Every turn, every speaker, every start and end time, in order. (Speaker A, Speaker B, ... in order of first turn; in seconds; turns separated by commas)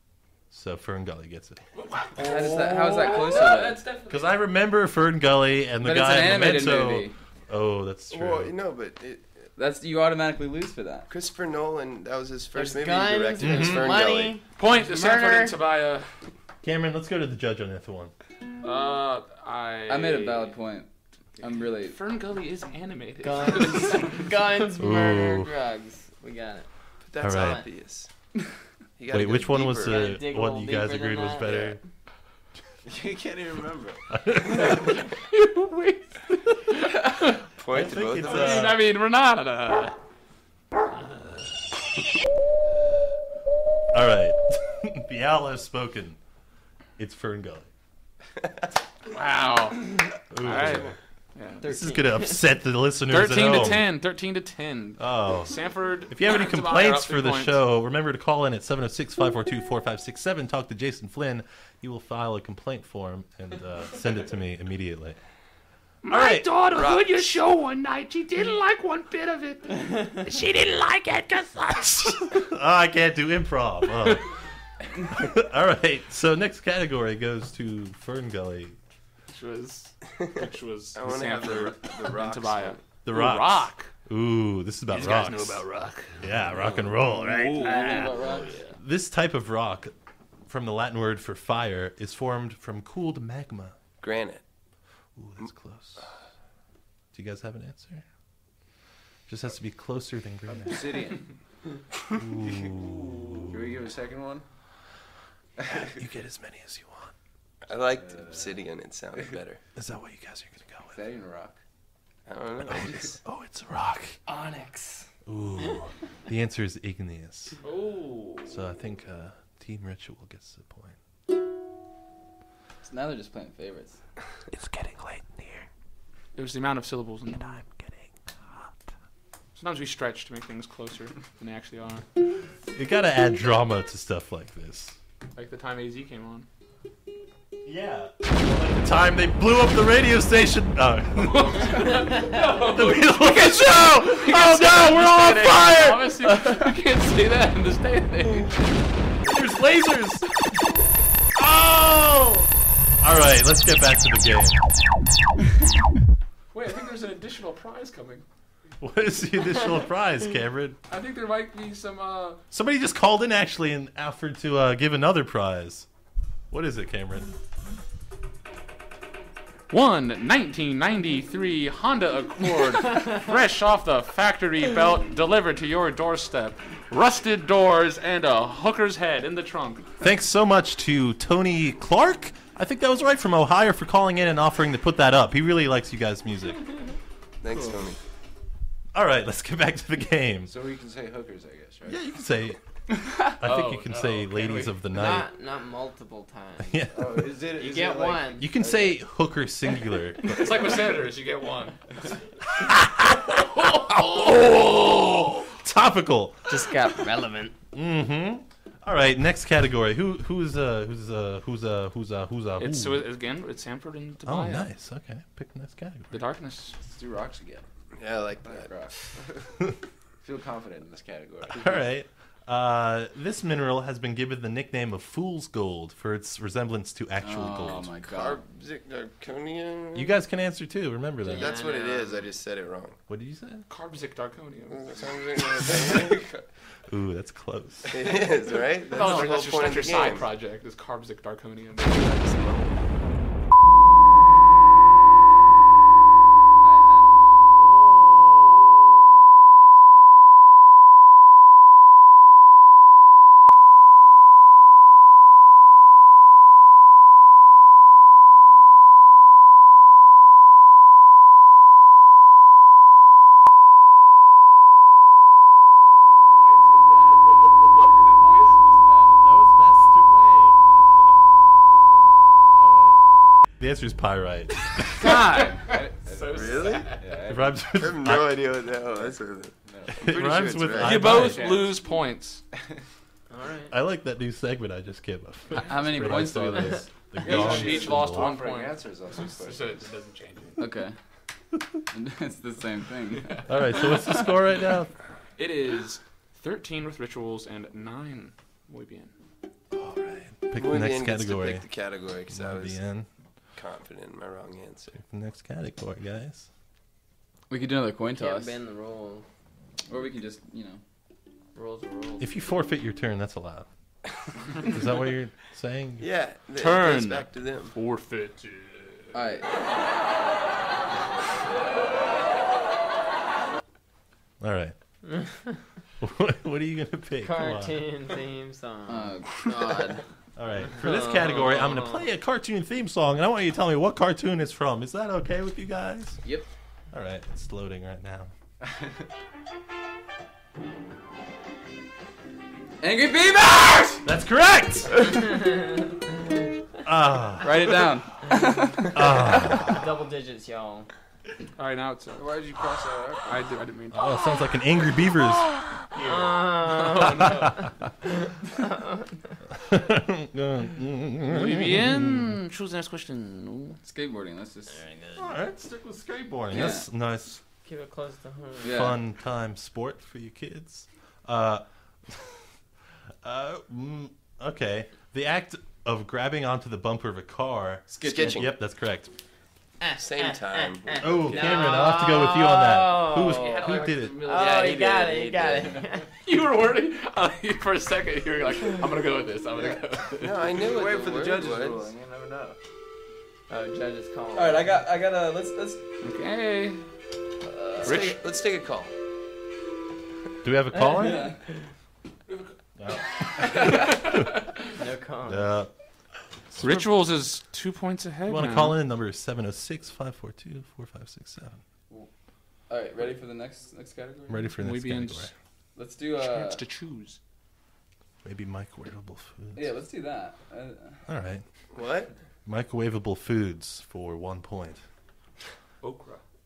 Speaker A: 0.5-1.6, Speaker B: 1.8-4.4, Speaker C: 2.1-3.8, Speaker A: 4.1-8.5, Speaker C: 5.8-7.1, Speaker D: 8.1-9.5, Speaker C: 9.6-11.1, Speaker D: 11.1-14.4, Speaker E: 12.5-15.6, Speaker A: 13.4-14.0, Speaker B: 14.6-16.1, Speaker A: 16.6-18.1, Speaker B: 18.6-20.6, Speaker C: 19.9-22.0, Speaker B: 21.4-24.2, Speaker E: 23.2-26.7, Speaker A: 24.8-25.5, Speaker D: 27.1-28.1, Speaker A: 27.2-27.6, Speaker E: 27.2-27.6, Speaker D: 28.9-30.2, Speaker A: 29.1-31.8, Speaker E: 29.8-31.8, Speaker F: 32.8-34.0, Speaker A: 34.1-34.8, Speaker B: 34.5-37.5, Speaker D: 37.5-38.7, Speaker A: 37.7-38.9, Speaker B: 38.2-39.9, Speaker A: 43.9-46.2, Speaker A: 47.0-47.7, Speaker B: 49.1-51.6, Speaker A: 50.3-51.0, Speaker D: 50.5-50.9, Speaker E: 51.6-52.4, Speaker A: 51.6-53.9, Speaker B: 53.1-57.6, Speaker A: 55.0-55.5, Speaker A: 56.1-65.2, Speaker B: 66.0-72.4, Speaker A: 66.1-66.5, Speaker D: 66.7-67.3, Speaker A: 72.3-74.3, Speaker A: 75.0-78.8, Speaker B: 79.3-83.9, Speaker D: 80.9-82.8, Speaker A: 83.0-85.6, Speaker B: 84.9-88.7, Speaker A: 86.2-88.2, Speaker C: 87.5-88.6, Speaker A: 88.8-89.9, Speaker A: 90.5-93.8, Speaker D: 94.0-94.4, Speaker A: 95.2-96.1, Speaker A: 97.1-98.0, Speaker A: 99.3-100.9, Speaker F: 100.5-101.3, Speaker A: 102.2-103.6, Speaker F: 103.5-104.5, Speaker F: 105.6-105.9, Speaker A: 105.8-107.1, Speaker D: 107.7-109.6, Speaker F: 108.0-108.6, Speaker A: 109.8-111.0, Speaker F: 110.9-111.6, Speaker D: 112.3-113.2, Speaker A: 112.7-114.2, Speaker E: 114.2-115.1, Speaker A: 115.2-117.6, Speaker B: 117.6-118.6, Speaker A: 118.5-121.0, Speaker C: 122.8-124.0, Speaker A: 124.5-125.7, Speaker B: 126.3-127.6, Speaker A: 127.4-128.7, Speaker B: 129.6-132.1, Speaker A: 132.7-134.9, Speaker B: 135.3-136.5, Speaker A: 137.6-146.1, Speaker B: 141.2-148.9, Speaker A: 149.2-150.5, Speaker A: 151.3-154.6, Speaker B: 156.5-158.2, Speaker A: 158.8-160.8, Speaker B: 160.9-162.4, Speaker A: 162.5-165.9, Speaker A: 166.5-167.3, Speaker B: 169.7-179.9, Speaker A: 180.0-186.6, Speaker D: 187.4-188.0, Speaker A: 188.9-190.5, Speaker F: 190.4-192.0, Speaker A: 191.8-192.6, Speaker A: 193.2-195.3, Speaker B: 193.4-194.8, Speaker E: 194.9-196.8, Speaker A: 196.6-197.3, Speaker F: 196.9-199.0, Speaker E: 197.6-198.6, Speaker A: 198.4-200.7, Speaker B: 200.2-201.8, Speaker A: 202.5-206.7, Speaker B: 203.3-205.2, Speaker E: 206.5-207.5, Speaker A: 207.7-213.0, Speaker B: 212.6-214.7, Speaker A: 214.2-216.1, Speaker B: 216.1-216.8, Speaker F: 216.8-217.6, Speaker D: 218.0-219.1, Speaker F: 218.4-219.5, Speaker F: 220.2-221.9, Speaker A: 221.5-227.9, Speaker C: 227.2-228.4, Speaker D: 228.0-230.2, Speaker A: 229.9-231.5, Speaker E: 231.2-232.3, Speaker D: 231.3-233.0, Speaker A: 233.1-233.7, Speaker B: 233.7-235.2, Speaker D: 234.7-236.4, Speaker A: 235.7-236.1, Speaker A: 236.9-238.1, Speaker D: 237.9-240.3, Speaker B: 238.9-242.8, Speaker C: 246.6-247.4, Speaker A: 247.6-250.3, Speaker B: 266.3-269.2, Speaker A: 269.2-270.6, Speaker A: 272.6-273.0, Speaker A: 273.6-275.2, Speaker C: 275.0-275.6, Speaker B: 275.0-277.0, Speaker F: 275.6-277.6, Speaker D: 276.3-276.9, Speaker A: 277.3-278.4, Speaker D: 277.7-281.1, Speaker F: 279.6-281.8, Speaker A: 279.9-281.5, Speaker B: 280.8-282.4, Speaker E: 283.3-283.7, Speaker A: 283.7-288.4, Speaker C: 285.6-286.9, Speaker B: 287.2-290.6, Speaker F: 287.2-289.8, Speaker C: 290.6-290.9, Speaker C: 291.9-294.3, Speaker A: 293.5-294.9, Speaker B: 295.4-299.1, Speaker A: 299.7-301.6, Speaker D: 300.6-302.8, Speaker A: 302.3-303.1, Speaker D: 303.6-305.0, Speaker A: 304.9-306.5, Speaker C: 307.5-308.6, Speaker E: 308.1-309.2, Speaker C: 309.9-310.8, Speaker E: 311.5-312.6, Speaker A: 312.2-313.7, Speaker A: 314.6-316.1, Speaker D: 316.0-317.7, Speaker B: 316.6-319.1, Speaker C: 319.1-319.5, Speaker A: 324.4-324.7, Speaker E: 325.1-325.6, Speaker A: 326.0-327.8, Speaker E: 327.2-329.9, Speaker C: 328.9-330.0, Speaker A: 330.4-336.2, Speaker E: 330.8-332.1, Speaker A: 336.9-338.3, Speaker F: 338.6-339.0, Speaker C: 342.8-344.0, Speaker A: 344.0-344.9, Speaker A: 346.8-347.6, Speaker C: 347.4-349.0, Speaker A: 348.9-349.7, Speaker E: 349.4-350.9, Speaker B: 351.6-352.2, Speaker F: 352.1-353.6, Speaker B: 353.2-354.6, Speaker A: 353.9-355.5, Speaker E: 356.0-357.5, Speaker B: 356.6-357.5, Speaker A: 359.6-362.3, Speaker B: 361.3-363.8, Speaker C: 363.8-364.9, Speaker E: 364.7-365.4, Speaker A: 365.1-367.4, Speaker C: 366.5-366.9, Speaker E: 367.6-368.9, Speaker C: 368.6-369.0, Speaker A: 368.6-372.4, Speaker A: 373.2-379.1, Speaker C: 377.9-378.5, Speaker D: 377.9-378.5, Speaker E: 379.8-386.1, Speaker D: 379.9-381.8, Speaker A: 381.0-384.2, Speaker B: 383.2-385.6, Speaker B: 386.2-390.4, Speaker F: 389.5-389.8, Speaker D: 390.2-391.9, Speaker F: 390.4-392.6, Speaker E: 393.5-394.8, Speaker C: 394.3-395.8, Speaker B: 396.0-396.8, Speaker C: 397.5-398.0, Speaker D: 397.8-398.9, Speaker B: 397.8-398.2, Speaker A: 400.4-401.3, Speaker C: 400.8-401.4, Speaker B: 402.3-404.7, Speaker A: 402.8-404.3, Speaker E: 404.8-405.5, Speaker A: 405.2-405.7, Speaker A: 406.5-406.9, Speaker B: 406.6-408.8, Speaker A: 408.3-411.6, Speaker C: 412.7-414.5, Speaker A: 414.3-415.3, Speaker B: 414.6-415.3, Speaker C: 415.7-416.6, Speaker B: 416.1-417.2, Speaker A: 418.2-419.7, Speaker C: 419.5-421.0, Speaker A: 421.1-421.4, Speaker D: 421.7-422.1, Speaker A: 422.4-424.8, Speaker B: 425.8-426.2